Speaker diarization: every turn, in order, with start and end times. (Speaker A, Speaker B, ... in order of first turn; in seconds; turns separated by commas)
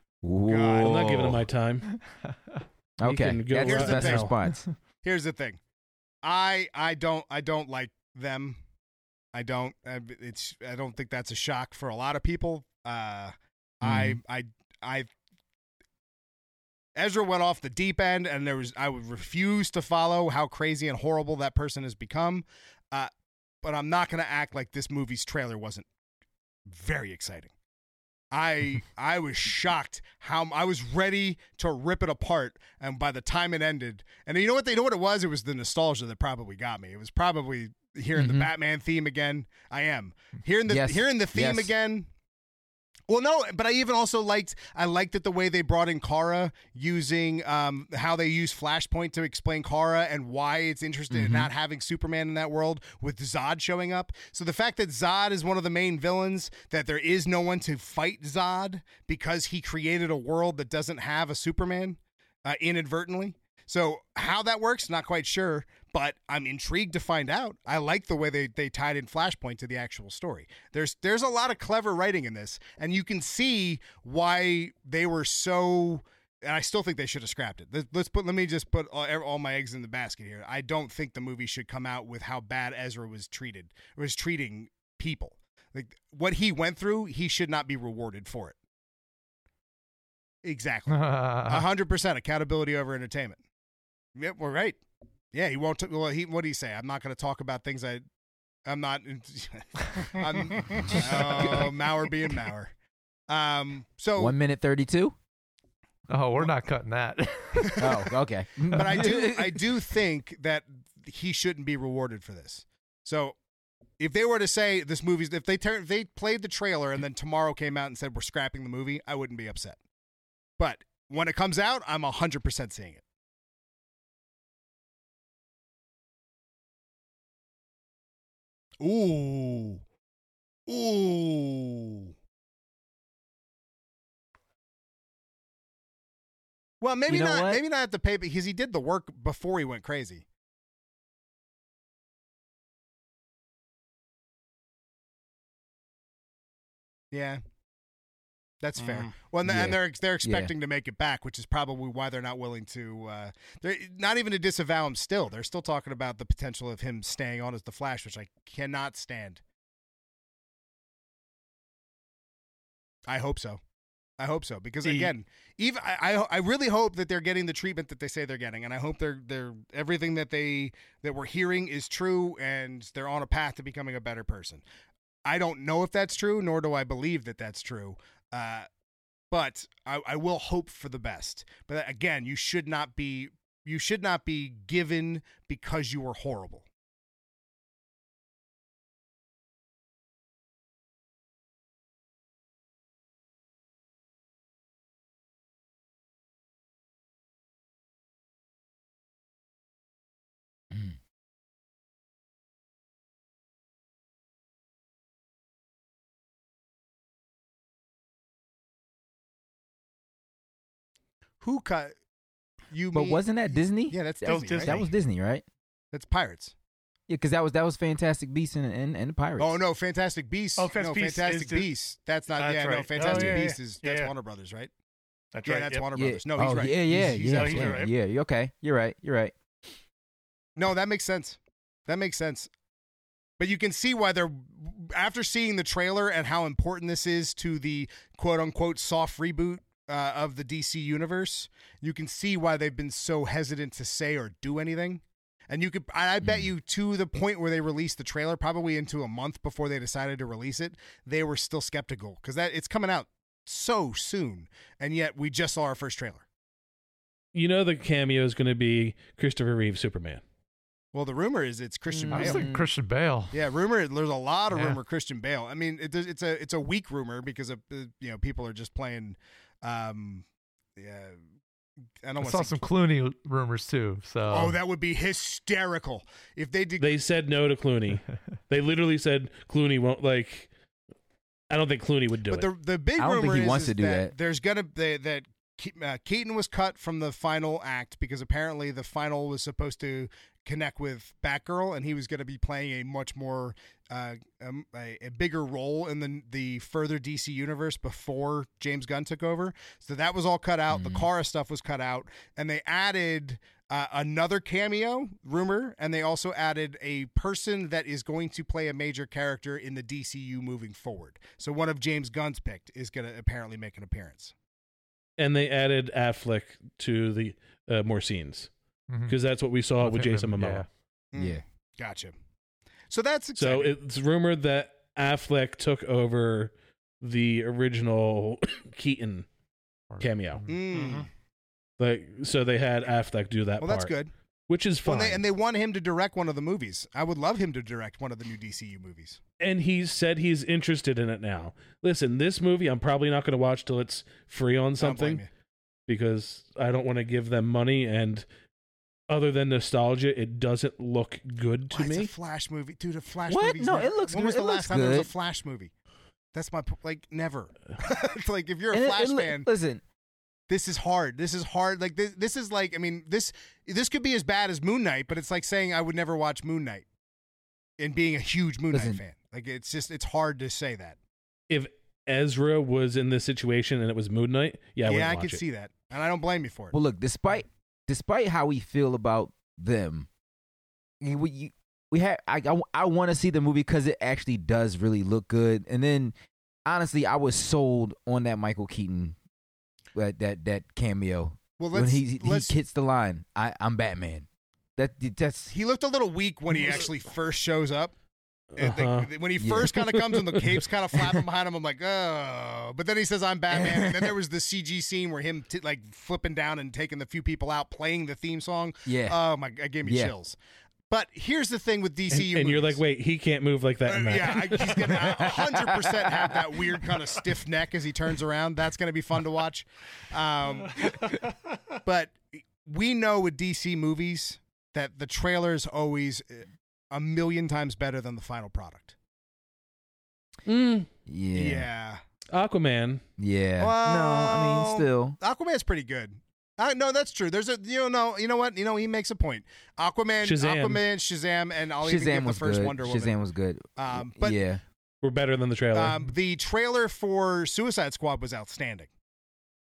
Speaker A: 0.2-1.4, Speaker B: 0.5-1.1, Speaker C: 0.8-1.9, Speaker A: 3.0-4.7, Speaker C: 3.0-4.3, Speaker B: 3.5-4.3, Speaker B: 5.0-5.6, Speaker B: 6.2-8.6, Speaker B: 9.3-15.1, Speaker A: 13.8-14.2, Speaker B: 17.0-23.1, Speaker B: 23.6-25.9, Speaker B: 26.7-27.5, Speaker B: 28.3-42.1, Speaker A: 38.2-38.5, Speaker A: 40.7-41.7, Speaker B: 43.1-88.6, Speaker A: 51.1-51.5, Speaker B: 90.4-93.4, Speaker D: 90.9-91.7, Speaker B: 94.2-94.8, Speaker B: 95.3-98.0, Speaker B: 98.7-102.7, Speaker E: 100.4-101.0, Speaker B: 103.3-104.3, Speaker A: 104.2-105.2, Speaker D: 106.1-107.8, Speaker B: 107.6-108.1, Speaker A: 107.8-109.7, Speaker B: 108.7-113.4, Speaker B: 114.0-119.8, Speaker B: 120.6-123.0, Speaker B: 128.8-129.8, Speaker B: 130.7-132.1, Speaker B: 136.8-140.2, Speaker A: 137.1-137.6, Speaker B: 147.1-147.4, Speaker B: 148.6-159.4, Speaker E: 148.8-149.1, Speaker A: 149.4-150.5, Speaker B: 163.1-163.6, Speaker B: 164.2-174.6, Speaker E: 164.8-165.1, Speaker B: 175.3-178.7, Speaker B: 179.3-186.7, Speaker B: 211.4-211.9, Speaker B: 212.7-214.8, Speaker A: 212.9-215.4, Speaker E: 214.2-214.9, Speaker B: 215.9-216.5, Speaker A: 217.1-219.6, Speaker B: 219.4-224.7, Speaker E: 220.6-221.7, Speaker E: 222.4-224.1, Speaker A: 223.1-223.5, Speaker E: 225.3-225.9, Speaker B: 225.4-227.9, Speaker A: 225.9-229.3, Speaker E: 227.3-227.9, Speaker B: 230.6-232.5, Speaker B: 233.4-256.2, Speaker C: 257.3-260.2, Speaker B: 260.9-262.5, Speaker A: 261.9-262.7, Speaker D: 262.1-263.4, Speaker B: 263.3-270.2, Speaker D: 264.5-264.8, Speaker B: 270.8-271.2, Speaker B: 272.0-272.6, Speaker D: 272.2-274.6, Speaker B: 274.3-276.9, Speaker C: 276.8-280.5, Speaker C: 281.5-282.5, Speaker B: 282.3-314.3, Speaker A: 283.0-284.1, Speaker A: 300.7-301.1, Speaker C: 315.2-318.5, Speaker D: 318.9-319.2, Speaker C: 319.1-320.7, Speaker D: 319.8-320.7, Speaker B: 321.1-322.1, Speaker A: 321.1-321.4, Speaker B: 322.9-323.7, Speaker C: 323.4-329.3, Speaker D: 329.9-330.5, Speaker C: 330.0-330.4, Speaker B: 330.5-331.1, Speaker E: 330.7-331.1, Speaker C: 331.8-333.9, Speaker B: 333.6-334.1, Speaker C: 334.5-335.2, Speaker B: 334.9-339.2, Speaker C: 339.4-345.2, Speaker B: 344.8-345.3, Speaker C: 345.9-348.2, Speaker C: 349.1-352.1, Speaker B: 351.7-355.7, Speaker A: 353.3-355.1, Speaker B: 356.3-359.5, Speaker A: 358.7-359.8, Speaker B: 360.5-366.9, Speaker B: 367.8-371.0, Speaker A: 368.7-369.0, Speaker C: 371.5-375.4, Speaker B: 374.9-376.8, Speaker A: 376.7-380.1, Speaker A: 381.0-386.1, Speaker A: 386.7-389.1, Speaker A: 389.9-395.5, Speaker B: 391.6-392.5, Speaker B: 395.5-397.9, Speaker C: 398.6-399.1, Speaker B: 398.6-410.4, Speaker A: 399.4-399.7, Speaker C: 399.9-400.5, Speaker A: 403.5-404.1, Speaker A: 408.9-409.2, Speaker A: 409.8-410.1, Speaker B: 410.9-412.8, Speaker C: 412.1-415.7, Speaker B: 413.9-420.9, Speaker E: 420.8-421.1, Speaker B: 421.9-428.9, Speaker C: 430.5-430.9, Speaker A: 431.1-431.7, Speaker B: 431.4-432.0, Speaker C: 432.3-433.0, Speaker A: 433.2-435.2, Speaker B: 433.6-443.1, Speaker C: 440.2-440.8, Speaker A: 441.8-444.6, Speaker B: 443.8-444.4, Speaker C: 445.0-446.1, Speaker B: 445.7-448.9